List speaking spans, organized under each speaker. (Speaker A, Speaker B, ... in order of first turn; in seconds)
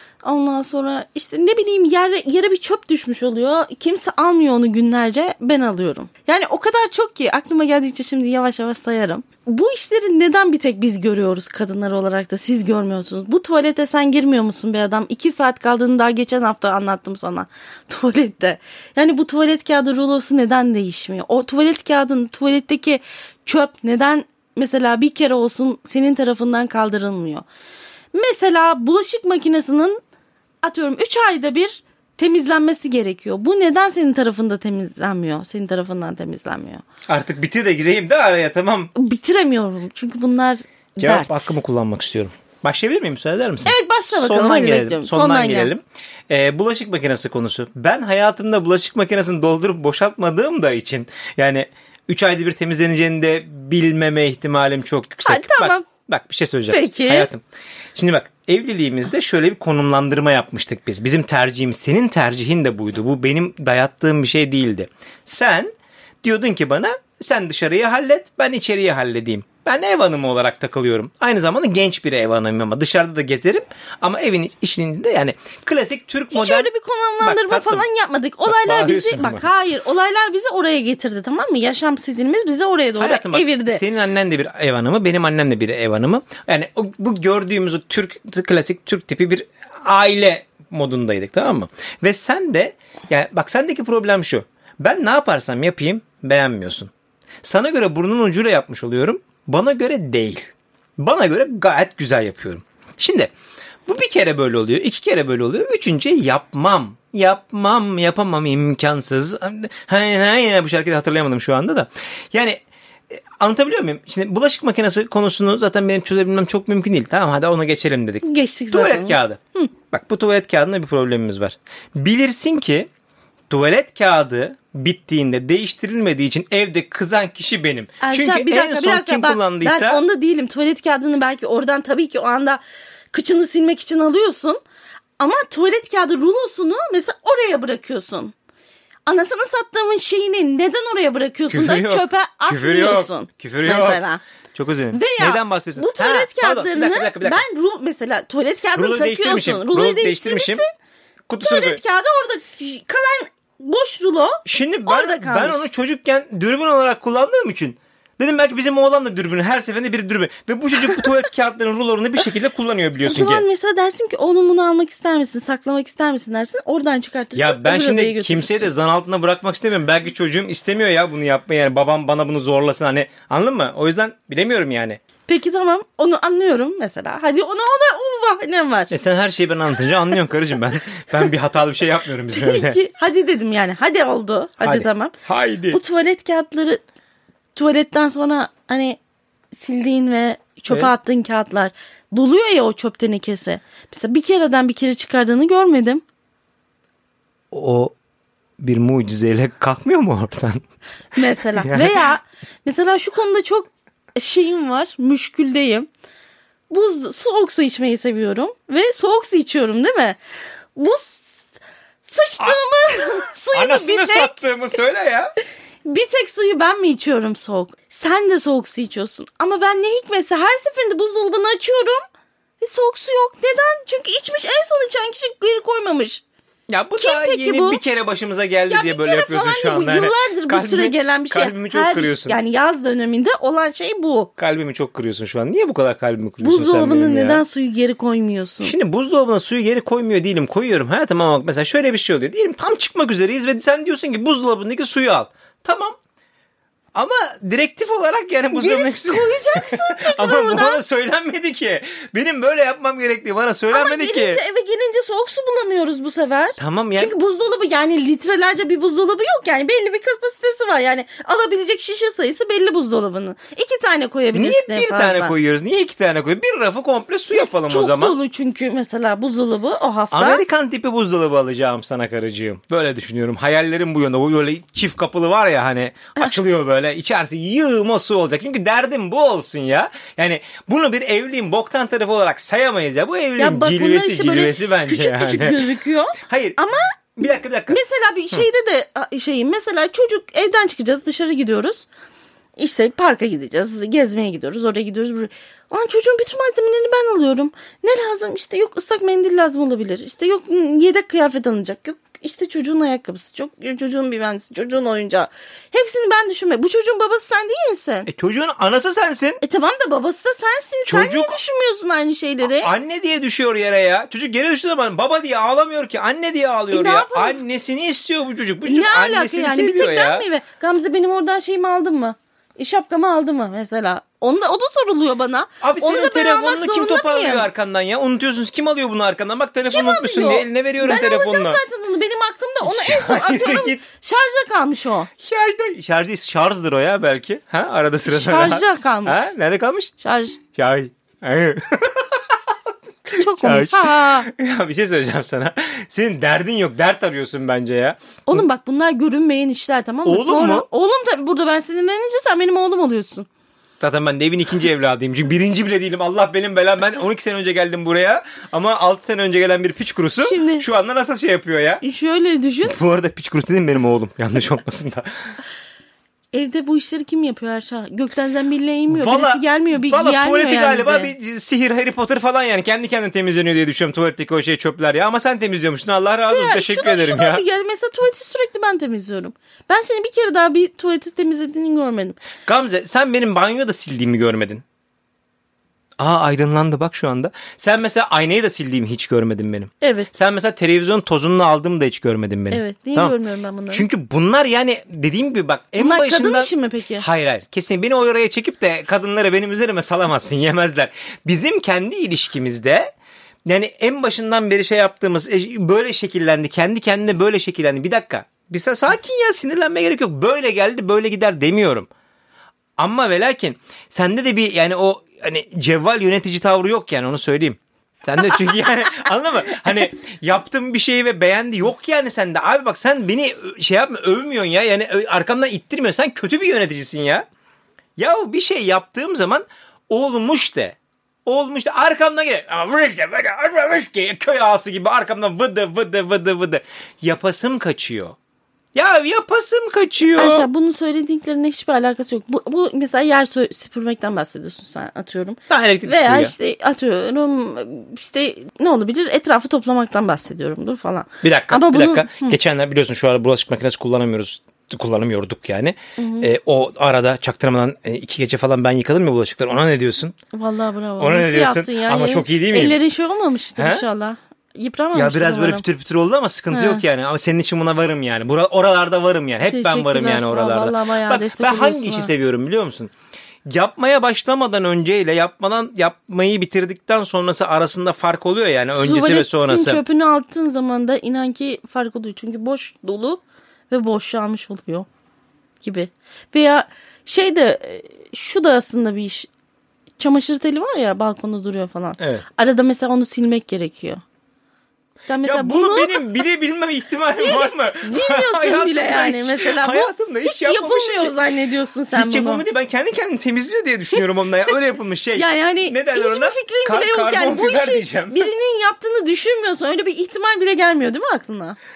Speaker A: 0.2-27.4, 28.1-30.0, 30.6-36.8, 39.0-41.5, 43.6-45.7, 55.2-55.9, 56.7-57.3, 76.3-83.8, 118.2-119.7, 128.0-134.6, 135.2-138.3, 139.1-144.2, 144.9-150.7, 151.4-155.7, 163.1-168.7, 175.3-178.9, 182.3-185.2, 185.7-186.8, 187.6-189.0, 189.5-196.0, 201.1-205.9, 206.7-210.2, 210.8-211.3, 212.0-214.4, 215.8-222.0, 222.6-226.2, 227.0-227.8, 228.7-234.3, 236.4-238.8, 248.5-250.8, 253.7-265.3, 267.3-270.4, 283.4-286.8, 287.7-291.9, 292.6-308.1, 309.4-312.7, 316.7-317.4, 318.6-327.5, 329.7-335.1, 338.1-339.3, 340.0-340.4, 343.2-344.3, 348.3-353.3, 360.2-360.6, 361.8-362.8, 366.3-371.1, 376.3-382.2, 389.8-390.1, 392.5-393.8, 395.8-397.1, 440.2-452.4, 456.0-456.3, 460.3-465.6, 466.5-466.8, 469.5-472.1, 478.8-484.9, 485.6-489.3, 490.0-494.0, 495.1-496.1, 497.2-502.4, 505.2-511.6
Speaker B: 37.1-38.9, 41.0-57.4, 58.0-65.7, 66.2-76.7, 77.2-77.9, 78.5-79.5, 83.0-96.9, 97.4-103.3, 103.9-122.9, 123.5-130.0, 141.5-144.0, 144.5-147.4, 148.8-150.6, 151.3-151.8, 154.4-163.4, 167.3-175.0, 178.9-182.8, 184.6-185.8, 197.5-198.0, 198.6-200.6, 201.5-202.0, 213.5-215.3, 226.7-232.4, 234.4-237.4, 238.6-246.0, 246.9-254.4, 256.6-257.1, 264.3-268.2, 270.1-286.6, 287.1-287.8, 308.1-309.4, 310.9-311.4, 312.5-320.3, 325.6-331.6, 332.6-333.8, 335.2-339.9, 340.5-348.5, 350.1-350.7, 353.8-361.8, 362.6-365.1, 368.9-377.4, 382.5-384.6, 386.0-393.2, 393.7-402.9, 403.5-411.9, 412.8-427.2, 428.0-438.2, 438.8-440.5, 445.5-446.4, 451.2-460.1, 461.0-462.8, 463.6-463.9, 464.9-472.9, 473.5-479.8, 492.0-492.2, 495.2-501.2, 501.9-508.3